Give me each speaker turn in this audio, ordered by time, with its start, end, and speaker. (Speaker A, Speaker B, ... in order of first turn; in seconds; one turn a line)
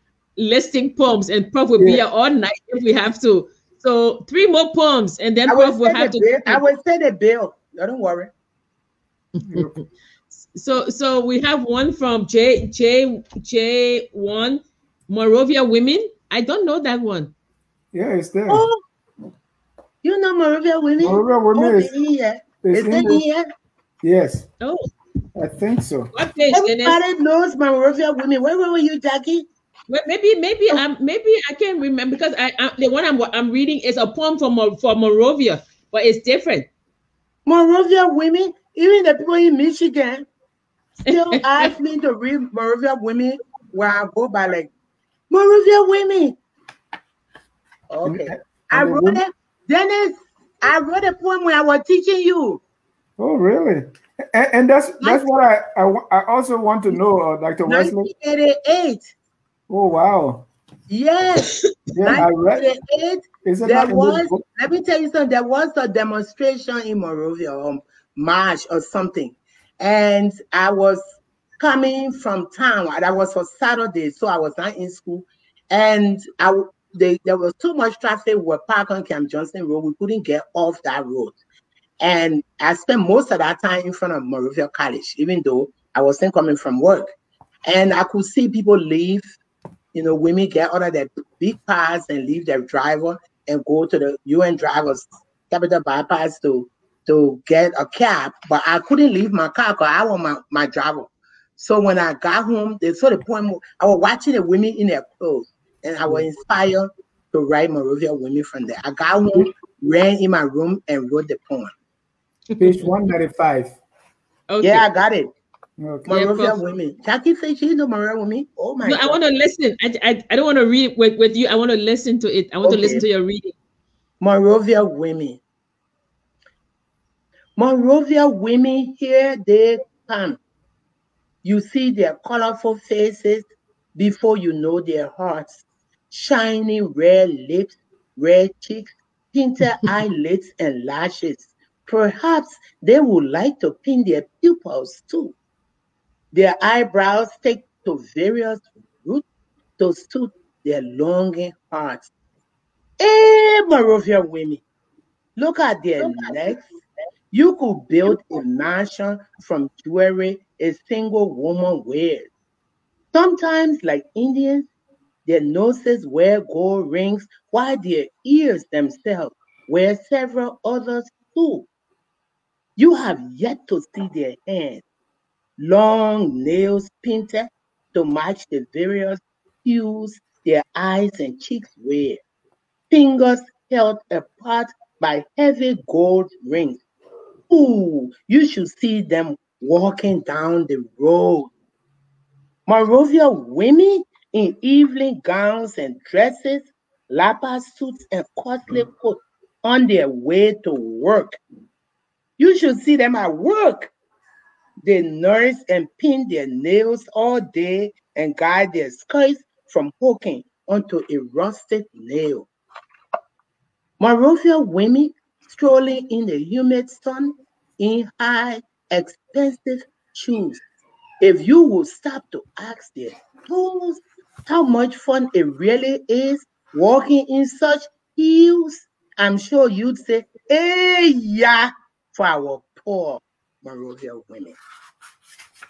Speaker A: 0.3-6.6
Speaker B: 1.8-2.0
Speaker C: 5.5-8.3
Speaker A: 9.4-9.8
Speaker A: 10.4-17.3
Speaker B: 17.9-18.6
Speaker C: 18.5-18.8
Speaker C: 20.0-23.4
Speaker B: 21.0-21.9
Speaker B: 22.6-23.2
Speaker B: 24.0-24.4
Speaker A: 24.6-24.9
Speaker B: 25.4-26.1
Speaker A: 26.1-27.0
Speaker C: 26.5-29.4
Speaker A: 29.9-36.7
Speaker C: 37.5-40.2
Speaker C: 41.1-44.7
Speaker A: 41.1-41.7
Speaker C: 45.3-46.4
Speaker C: 47.9-52.6
Speaker B: 48.0-49.2
Speaker B: 53.2-58.1
Speaker C: 57.7-59.1
Speaker B: 59.7-60.5
Speaker C: 60.9-71.0
Speaker B: 62.0-62.6
Speaker B: 63.4-64.4
Speaker C: 71.6-81.4
Speaker C: 82.0-87.1
Speaker C: 87.7-89.3
Speaker C: 89.9-111.7
Speaker A: 112.5-112.9
Speaker B: 112.6-113.8
Speaker A: 114.5-114.8
Speaker C: 114.6-115.3
Speaker B: 115.8-116.1
Speaker C: 116.1-119.2
Speaker A: 116.1-116.5
Speaker A: 118.8-123.5
Speaker C: 122.6-123.0
Speaker C: 124.2-125.4
Speaker C: 127.6-130.4
Speaker C: 131.4-145.3
Speaker C: 146.3-149.2
Speaker C: 149.8-152.1
Speaker C: 153.0-154.6
Speaker C: 155.4-156.6
Speaker C: 157.3-162.3
Speaker C: 163.1-164.7
Speaker C: 165.2-171.7
Speaker C: 172.8-174.8
Speaker C: 175.6-182.2
Speaker C: 182.9-186.8
Speaker C: 187.5-191.5
Speaker C: 192.7-201.3
Speaker C: 202.4-203.9
Speaker C: 204.8-212.5
Speaker C: 214.0-220.6
Speaker C: 221.2-234.6